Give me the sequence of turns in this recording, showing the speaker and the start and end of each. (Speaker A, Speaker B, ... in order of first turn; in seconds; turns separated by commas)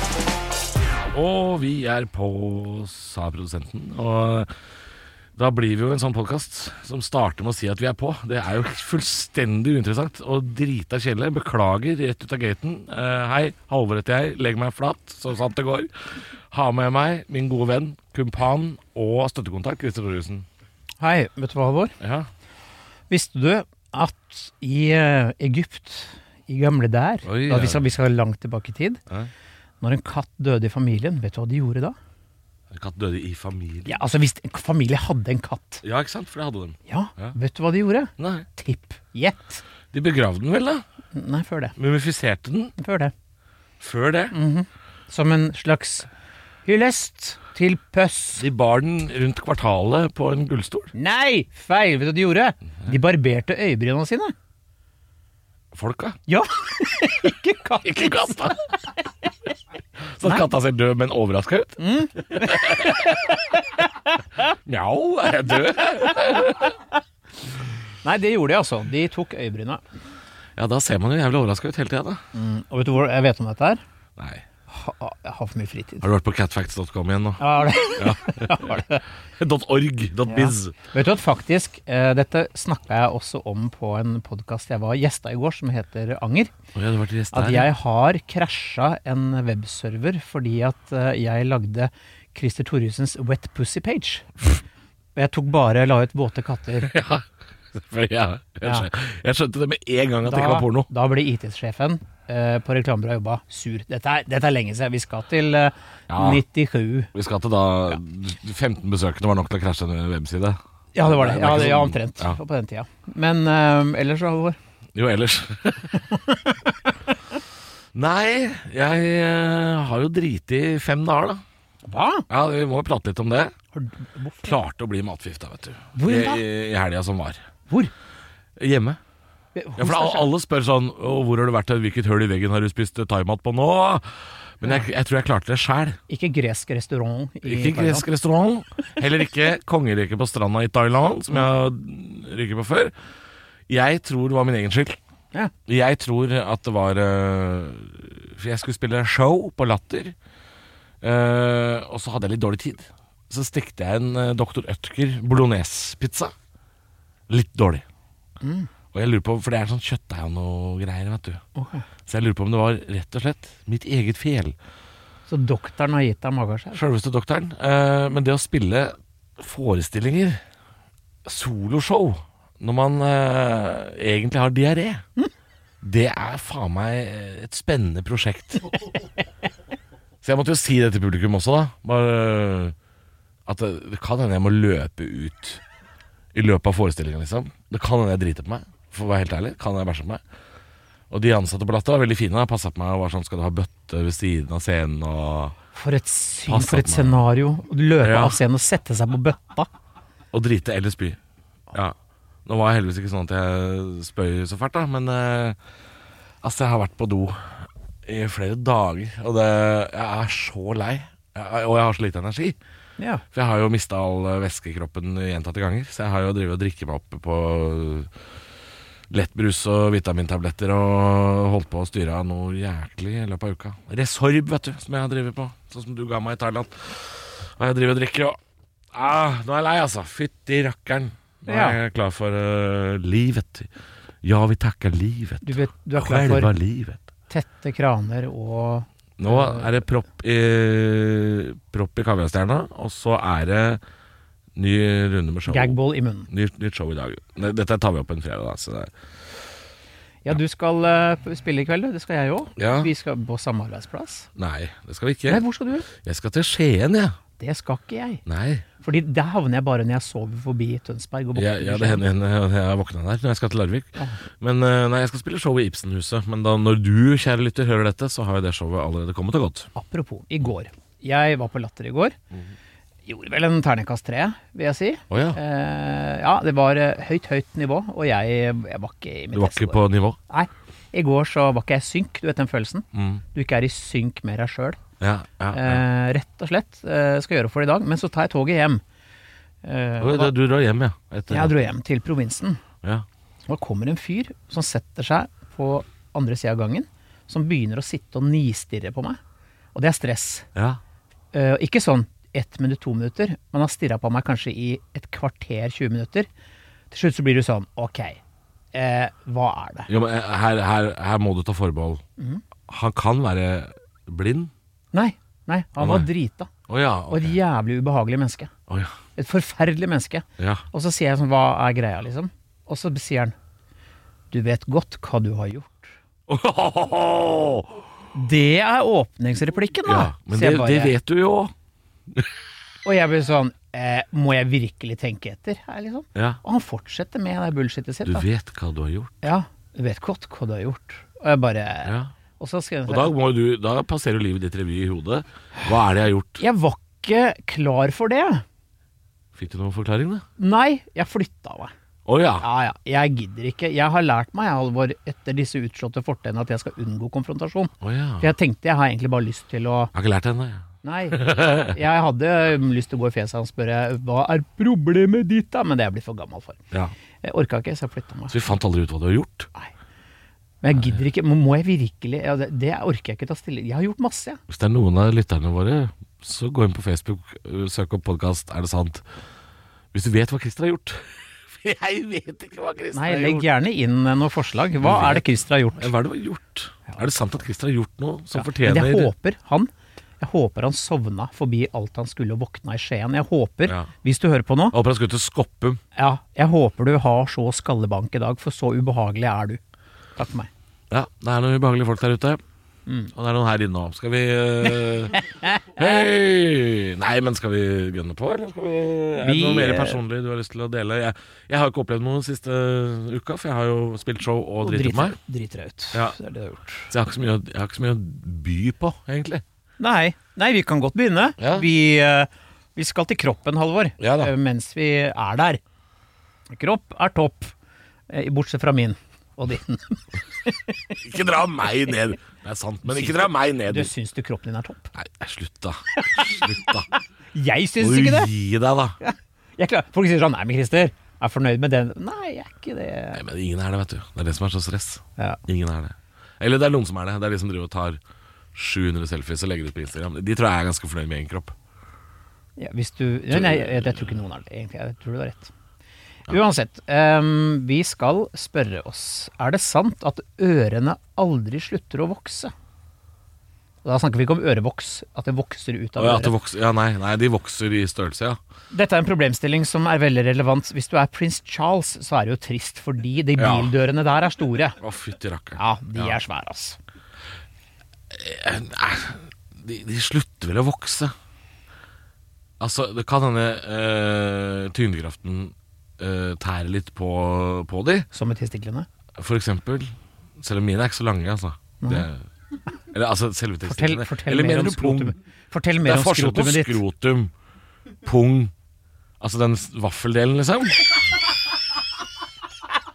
Speaker A: 1.1-4.5, Speaker A: 5.3-20.4, Speaker B: 21.0-22.0, Speaker A: 22.0-22.3, Speaker B: 23.1-29.0, Speaker A: 27.2-27.8, Speaker B: 29.8-32.0, Speaker A: 32.7-34.0, Speaker B: 33.9-35.8, Speaker A: 35.8-37.3, Speaker B: 36.9-39.6, Speaker A: 38.2-38.5, Speaker A: 39.9-40.8, Speaker B: 41.1-41.7, Speaker A: 41.8-42.7, Speaker B: 42.8-43.1, Speaker A: 43.8-44.3, Speaker B: 44.3-46.1, Speaker B: 46.6-48.4, Speaker A: 48.4-50.9, Speaker B: 50.9-54.3, Speaker A: 55.7-56.2, Speaker B: 56.3-58.5, Speaker A: 57.8-58.6, Speaker A: 60.1-63.4, Speaker B: 61.8-64.1, Speaker A: 64.7-66.7, Speaker B: 66.0-66.7, Speaker B: 68.0-69.8, Speaker A: 70.5-72.2, Speaker B: 72.3-73.8, Speaker A: 74.2-74.4, Speaker B: 74.7-76.0, Speaker A: 76.0-78.8, Speaker B: 77.4-79.0, Speaker A: 79.4-80.8, Speaker B: 80.2-86.5, Speaker A: 86.7-87.7, Speaker B: 87.3-94.6, Speaker B: 95.2-96.9, Speaker A: 96.8-100.9, Speaker B: 98.6-98.9, Speaker B: 100.2-107.1, Speaker A: 106.1-106.4, Speaker A: 107.1-112.4, Speaker B: 110.9-114.6, Speaker A: 114.9-116.0, Speaker B: 116.1-116.9, Speaker A: 117.9-121.4, Speaker B: 121.8-122.3, Speaker A: 122.3-123.5, Speaker B: 123.7-124.5, Speaker A: 124.4-127.4, Speaker B: 125.9-126.4, Speaker A: 128.6-129.0, Speaker B: 129.5-130.3, Speaker A: 129.8-136.0, Speaker B: 136.1-138.1, Speaker A: 137.4-142.9, Speaker A: 143.7-145.0, Speaker A: 145.7-150.1, Speaker A: 151.0-156.3, Speaker A: 157.3-157.8, Speaker B: 158.4-158.7, Speaker A: 158.9-161.4, Speaker B: 161.6-161.8, Speaker A: 162.1-164.5, Speaker B: 165.3-166.8, Speaker A: 166.7-170.4, Speaker A: 171.2-175.0, Speaker A: 175.8-178.8, Speaker A: 180.2-182.7, Speaker A: 183.4-185.6, Speaker A: 186.3-190.2, Speaker A: 191.1-195.6, Speaker B: 195.7-199.7, Speaker A: 196.5-197.2, Speaker A: 198.0-198.4, Speaker A: 200.3-201.2, Speaker A: 202.4-205.6, Speaker A: 206.4-212.6, Speaker B: 213.0-213.2, Speaker A: 213.3-218.1, Speaker A: 219.1-228.4, Speaker A: 228.9-233.7, Speaker B: 231.4-231.8, Speaker A: 234.2-237.0, Speaker B: 235.4-236.5, Speaker B: 237.3-239.7, Speaker A: 239.2-243.8, Speaker A: 244.5-245.8, Speaker B: 245.5-246.3, Speaker A: 246.3-248.9, Speaker B: 250.2-254.3, Speaker A: 252.6-252.9, Speaker A: 254.3-257.1, Speaker B: 255.3-255.9, Speaker B: 257.4-258.2, Speaker A: 258.2-258.6, Speaker B: 258.8-262.0, Speaker A: 261.4-269.7, Speaker B: 269.7-272.1, Speaker B: 273.1-284.8, Speaker A: 275.1-275.4, Speaker A: 279.3-280.2, Speaker A: 282.9-283.2, Speaker A: 285.0-285.8, Speaker B: 285.5-288.8, Speaker B: 289.6-290.3, Speaker A: 290.0-291.6, Speaker B: 291.3-292.6, Speaker B: 293.5-299.2, Speaker B: 299.7-300.5, Speaker A: 300.5-300.8, Speaker B: 301.3-306.3, Speaker B: 306.9-308.2, Speaker B: 308.7-309.9, Speaker A: 309.9-312.0, Speaker B: 312.2-312.4, Speaker A: 312.7-314.5, Speaker B: 314.9-316.5, Speaker A: 315.8-316.1, Speaker A: 316.7-317.4, Speaker B: 317.1-318.5, Speaker A: 318.7-318.9, Speaker B: 319.1-323.3, Speaker A: 320.4-320.6, Speaker B: 324.3-325.9, Speaker A: 326.3-327.8, Speaker B: 328.1-330.9, Speaker A: 329.9-331.5, Speaker B: 332.8-338.2, Speaker A: 336.1-336.4, Speaker A: 338.0-339.3, Speaker B: 339.2-343.1, Speaker A: 341.8-342.1, Speaker A: 342.9-346.4, Speaker B: 346.4-348.4, Speaker A: 349.3-350.2, Speaker B: 350.4-351.7, Speaker A: 352.1-352.4, Speaker B: 352.4-359.9, Speaker A: 357.8-358.3, Speaker A: 359.9-361.8, Speaker B: 360.8-366.6, Speaker B: 367.2-368.4, Speaker A: 368.3-369.5, Speaker B: 370.6-374.4, Speaker A: 374.5-379.0, Speaker A: 379.9-383.5, Speaker B: 382.9-385.9, Speaker A: 384.8-385.2, Speaker A: 385.8-389.1, Speaker B: 388.3-394.8, Speaker A: 394.7-395.8, Speaker B: 395.9-399.6, Speaker B: 400.1-400.5, Speaker A: 400.9-402.4, Speaker A: 403.1-405.2, Speaker B: 405.1-405.9, Speaker A: 405.7-415.2, Speaker B: 409.2-410.0, Speaker B: 414.6-416.9, Speaker A: 416.9-419.4, Speaker B: 419.8-425.6, Speaker A: 421.4-421.7, Speaker A: 424.0-424.3, Speaker B: 426.5-427.5, Speaker B: 428.1-430.9, Speaker A: 430.9-433.9, Speaker B: 432.8-434.9, Speaker A: 434.9-436.9, Speaker B: 435.9-438.3, Speaker A: 437.8-439.0, Speaker B: 439.0-443.2, Speaker A: 443.1-448.0, Speaker A: 448.5-451.5, Speaker B: 452.6-455.5, Speaker A: 453.3-454.1, Speaker B: 456.3-462.5, Speaker B: 463.8-466.3, Speaker A: 466.0-468.4, Speaker B: 468.7-474.8, Speaker A: 473.4-473.7, Speaker A: 474.8-476.2, Speaker B: 475.6-476.8, Speaker A: 478.1-481.1, Speaker A: 482.6-488.1, Speaker B: 488.1-488.9, Speaker A: 489.2-492.2, Speaker B: 491.8-492.1, Speaker A: 492.9-495.1, Speaker B: 493.6-496.8, Speaker A: 495.8-497.3, Speaker A: 498.0-498.5, Speaker A: 499.2-500.9